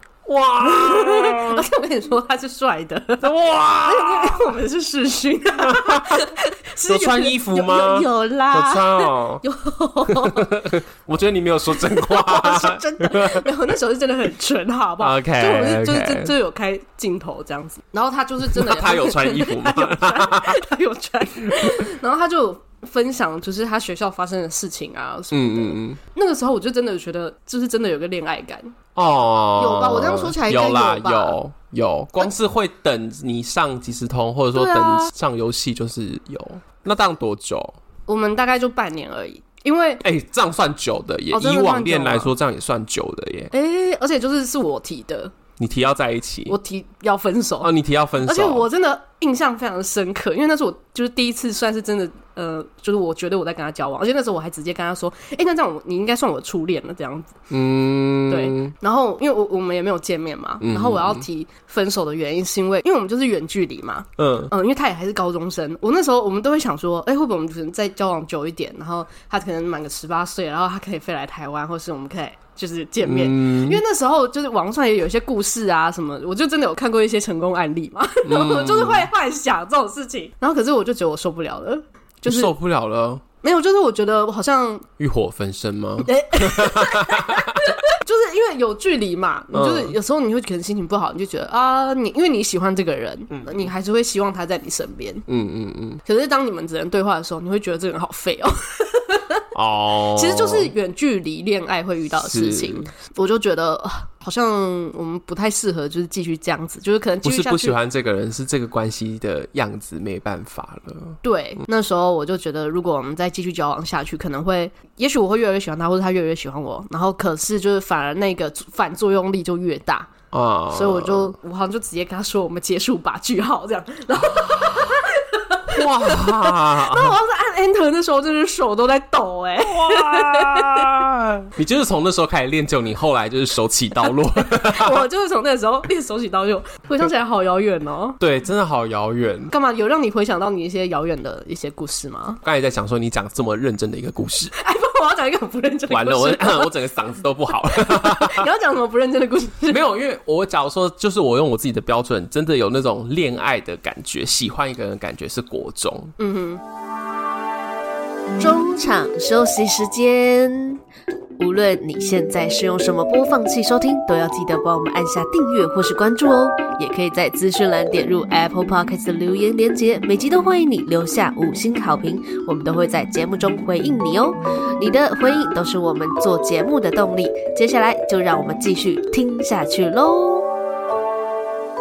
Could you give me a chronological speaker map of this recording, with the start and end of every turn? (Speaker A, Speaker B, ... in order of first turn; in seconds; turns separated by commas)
Speaker A: 0.2-1.7, Speaker B: 0.6-10.5, Speaker A: 3.2-4.6, Speaker A: 5.6-6.3, Speaker A: 6.8-9.4, Speaker A: 10.1-13.5, Speaker B: 11.8-28.8, Speaker A: 15.0-16.3, Speaker A: 18.4-20.6, Speaker A: 21.5-21.8, Speaker A: 25.3-26.0, Speaker A: 29.0-37.8, Speaker B: 29.6-31.4, Speaker B: 34.5-35.1, Speaker B: 38.1-40.0, Speaker A: 40.0-43.5, Speaker B: 41.3-42.3, Speaker B: 43.5-45.3, Speaker A: 45.6-46.6, Speaker B: 46.5-47.7, Speaker A: 47.6-48.7, Speaker B: 48.2-57.4, Speaker A: 57.5-58.7, Speaker B: 58.3-82.5, Speaker A: 60.6-61.2, Speaker A: 64.2-64.5, Speaker A: 73.0-73.8, Speaker A: 78.2-79.1, Speaker A: 82.2-83.2, Speaker B: 83.4-84.9, Speaker A: 85.0-87.7, Speaker B: 86.0-95.3, Speaker A: 89.5-90.0, Speaker A: 93.3-93.7, Speaker A: 95.3-96.0, Speaker B: 96.0-99.4, Speaker A: 99.5-100.7, Speaker B: 100.1-107.8, Speaker A: 102.2-102.9, Speaker A: 107.2-111.2, Speaker B: 111.2-120.1, Speaker A: 120.3-121.3, Speaker B: 120.7-130.9, Speaker A: 124.2-124.9, Speaker A: 125.7-127.2, Speaker A: 129.6-135.1, Speaker B: 134.4-138.2, Speaker A: 138.2-139.5, Speaker B: 139.5-142.4, Speaker A: 142.4-144.5, Speaker B: 144.6-146.8, Speaker A: 145.9-148.5, Speaker B: 147.6-149.8, Speaker A: 149.7-156.1, Speaker B: 156.2-156.6, Speaker C: 158.4-160.8, Speaker C: 161.4-180.5